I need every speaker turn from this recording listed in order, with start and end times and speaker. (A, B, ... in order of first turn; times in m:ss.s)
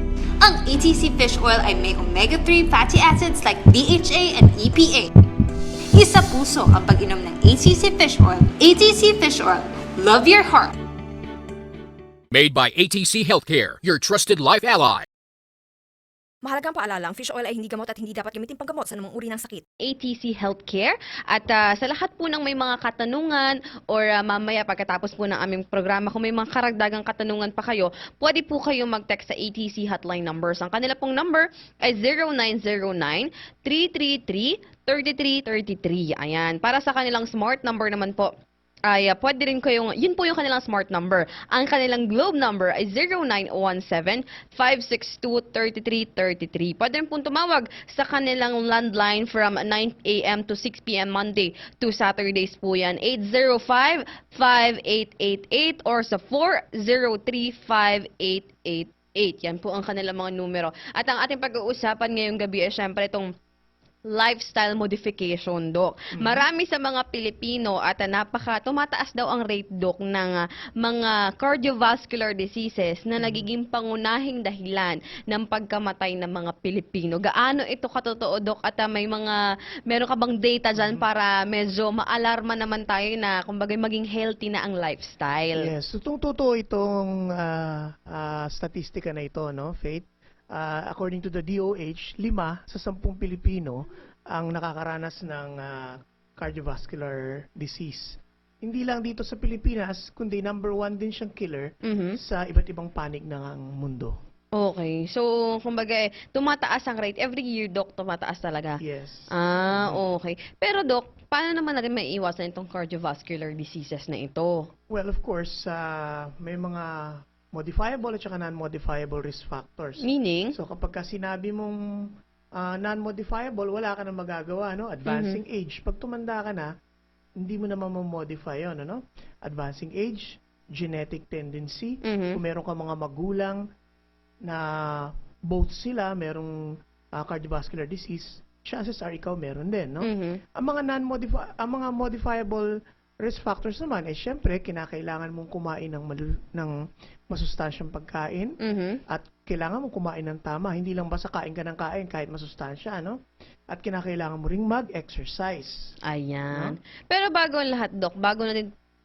0:00.4-0:05.1 A
0:05.9-0:10.7 A
0:12.3-0:15.1 B
0:16.5-0:19.6 C
0:19.8-0:38.3 D
0:38.9-1:03.3 D
1:04.1-1:19.4 D
1:06.2-1:06.5 E
1:13.2-1:13.5 E
1:19.9-1:25.7 D
1:20.8-1:21.0 E
1:25.6-1:33.8 E
1:34.3-1:44.2 E
1:41.8-1:42.2 D
1:44.6-1:48.8 D
1:48.8-1:50.0 E
1:49.3-1:54.6 D
1:54.9-2:01.8 E
2:00.0-2:00.6 D
2:02.6-2:06.7 E
2:05.1-2:05.4 D
2:07.4-2:13.6 E
2:12.0-2:12.4 D
2:14.5-2:16.5 E
2:17.2-2:22.7 E
2:20.0-2:20.4 D
2:23.2-2:26.8 E
2:27.3-2:28.5 E
2:28.6-2:29.0 D
2:29.1-2:33.2 E
2:33.7-2:35.8 E
2:36.1-2:38.7 D
2:36.5-2:36.8 E